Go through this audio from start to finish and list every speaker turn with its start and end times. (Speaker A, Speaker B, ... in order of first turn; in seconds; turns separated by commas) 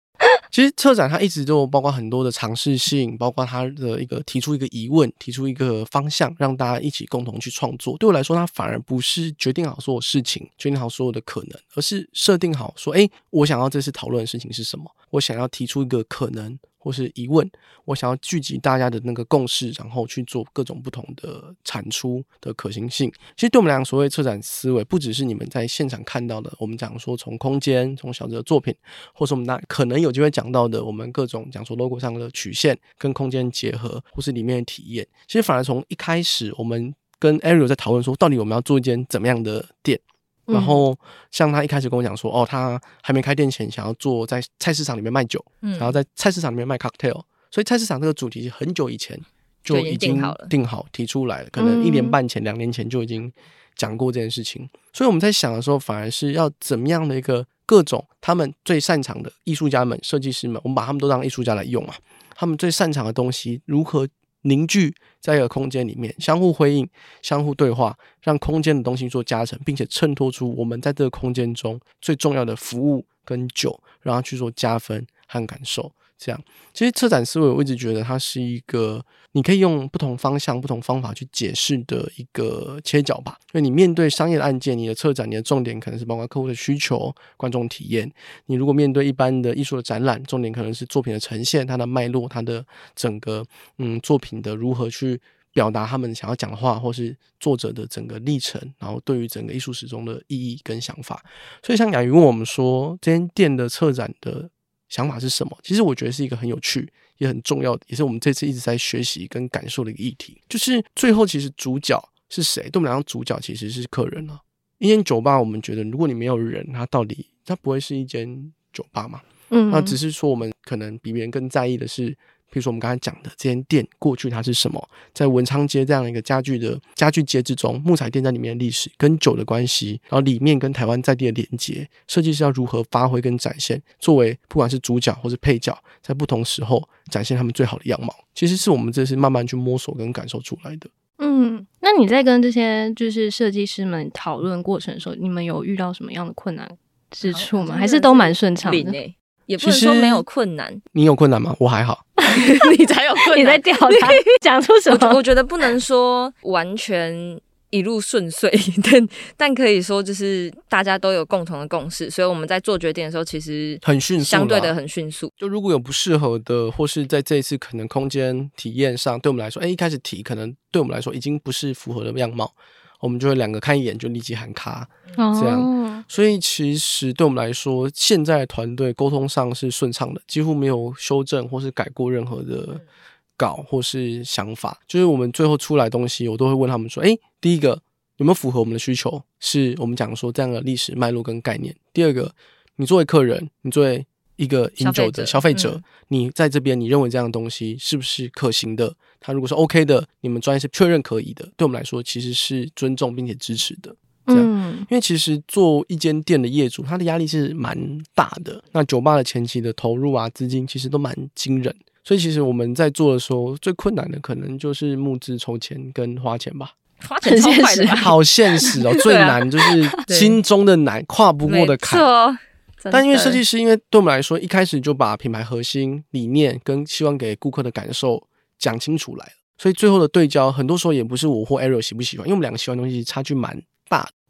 Speaker A: 0.5-140.9, Speaker B: 40.5-40.8, Speaker C: 45.6-46.0, Speaker C: 49.7-50.5, Speaker B: 51.6-52.2, Speaker B: 119.5-120.0, Speaker B: 141.2-149.0, Speaker C: 147.2-150.8, Speaker A: 149.6-150.2, Speaker A: 150.9-152.0, Speaker B: 152.2-152.7, Speaker C: 152.2-154.2, Speaker B: 153.2-155.2, Speaker C: 154.9-165.3, Speaker A: 163.8-164.8, Speaker A: 165.4-182.8, Speaker B: 175.2-176.0, Speaker A: 183.4-216.7, Speaker C: 194.8-195.8, Speaker B: 204.3-204.9, Speaker C: 217.0-218.2, Speaker B: 217.2-218.1, Speaker A: 218.0-222.1, Speaker C: 219.0-219.4, Speaker C: 220.1-220.4, Speaker C: 221.4-223.4, Speaker A: 222.9-234.1